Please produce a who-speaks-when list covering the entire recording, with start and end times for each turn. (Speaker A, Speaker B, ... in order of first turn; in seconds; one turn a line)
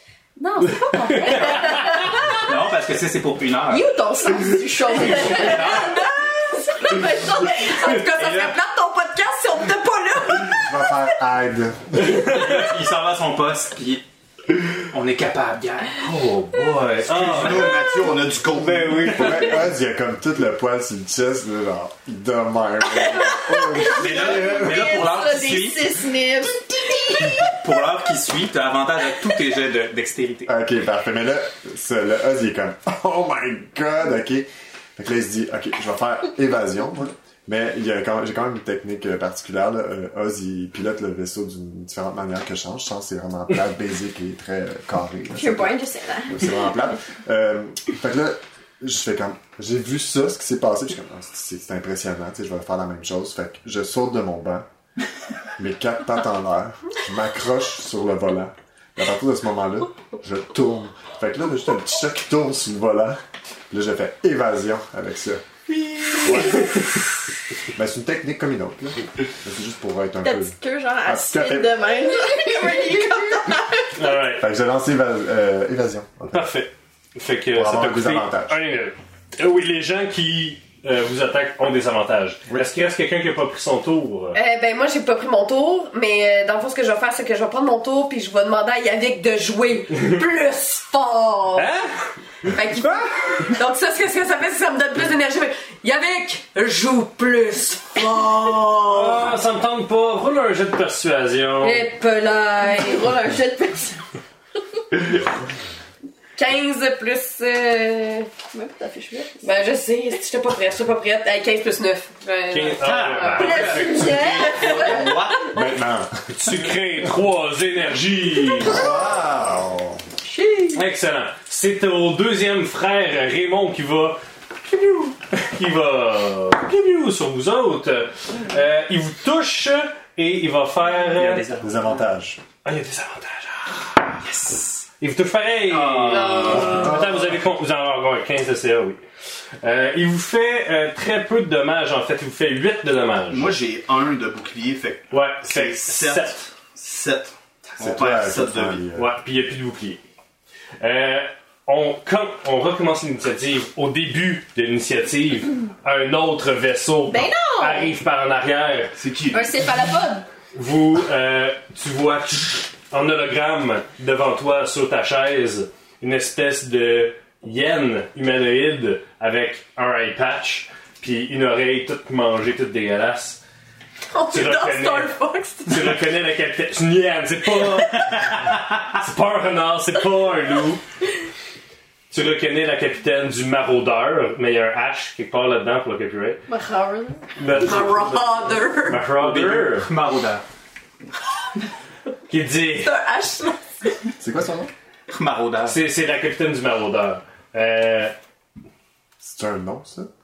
Speaker A: 0.4-2.3
Speaker B: 0.9-2.4
Speaker C: 2.3-3.9
Speaker A: 3.7-6.1
Speaker C: 5.1-6.0
Speaker D: 5.1-11.0
Speaker A: 6.7-7.8
Speaker E: 10.4-12.3
Speaker C: 12.1-14.0
Speaker B: 12.2-12.6
Speaker C: 14.9-16.1
Speaker B: 16.0-17.9
Speaker F: 17.0-19.3
Speaker B: 18.4-19.7
Speaker E: 19.1-25.0
Speaker A: 23.4-27.4
Speaker C: 23.9-26.0
Speaker C: 27.2-30.5
Speaker E: 30.5-54.7
Speaker A: 45.3-46.5
Speaker E: 55.6-65.4
Speaker B: 66.2-67.1
Speaker E: 67.7-72.5
Speaker A: 70.2-74.1
Speaker B: 74.0-74.5
Speaker E: 74.4-76.5
Speaker B: 76.3-84.4
Speaker E: 77.5-78.6
Speaker D: 84.3-91.7
Speaker B: 91.5-91.9
Speaker D: 92.5-99.4
Speaker B: 98.8-101.9
Speaker D: 101.6-103.1
Speaker A: 102.6-104.0
Speaker D: 106.3-108.3
Speaker A: 108.5-109.4
Speaker D: 109.4-115.5
Speaker B: 112.5-114.4
Speaker F: 112.8-115.5
Speaker A: 113.3-115.1
Speaker E: 115.5-116.6
Speaker B: 116.3-118.9
Speaker E: 118.6-120.0
Speaker A: 120.2-120.8
Speaker B: 120.7-131.6
Speaker C: 130.9-132.0
Speaker E: 131.6-132.4
Speaker B: 132.6-134.2
Speaker C: 134.2-134.8
Speaker B: 135.0-139.0
Speaker F: 135.7-136.9
Speaker C: 136.1-136.6
Speaker D: 136.2-136.8
Speaker E: 136.6-137.3
Speaker B: 139.6-143.6
Speaker F: 143.3-148.9
Speaker B: 145.1-146.5
Speaker E: 147.8-149.1
Speaker B: 148.9-150.0
Speaker B: 150.8-158.9
Speaker A: 157.1-157.9
Speaker F: 158.9-159.7
Speaker A: 159.3-160.2
Speaker B: 160.5-173.4
Speaker D: 174.1-176.0
Speaker B: 174.3-175.1
Speaker B: 175.6-180.8
Speaker B: 182.1-186.4
Speaker A: 186.5-187.2
Speaker B: 187.4-189.9
Speaker D: 187.5-189.0
Speaker C: 189.2-190.4
Speaker B: 192.3-193.0
Speaker D: 192.8-193.9
Speaker E: 194.2-194.7
Speaker C: 195.1-195.8
Speaker B: 195.6-198.1
Speaker E: 199.2-200.1